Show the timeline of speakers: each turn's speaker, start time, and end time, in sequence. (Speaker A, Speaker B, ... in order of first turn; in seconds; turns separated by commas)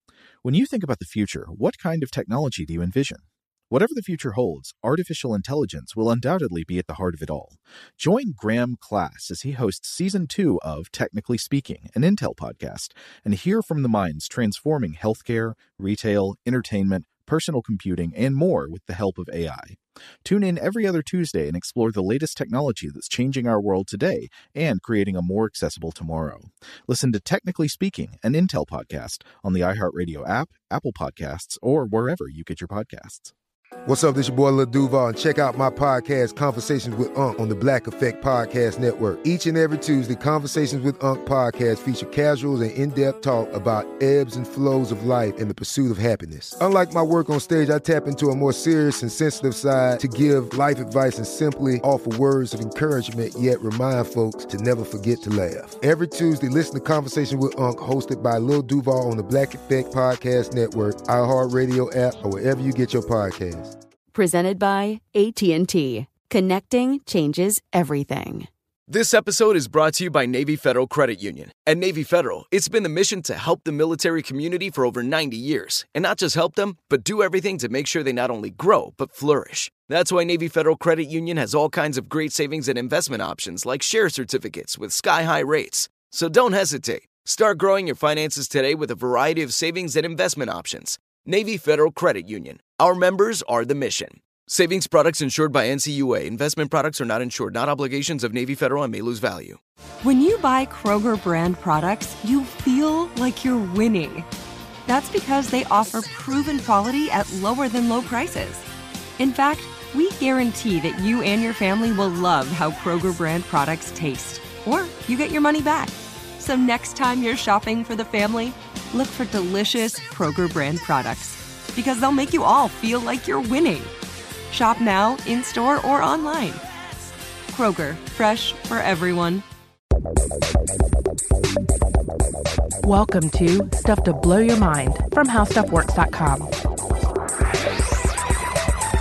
Speaker A: 0.4-33.3, Speaker B: 33.9-63.8, Speaker C: 64.1-68.5, Speaker D: 68.9-99.6, Speaker E: 100.0-104.3, Speaker E: 104.9-108.7, Speaker E: 109.2-123.9, Speaker E: 124.5-126.7, Speaker E: 127.5-129.4, Speaker F: 132.8-136.5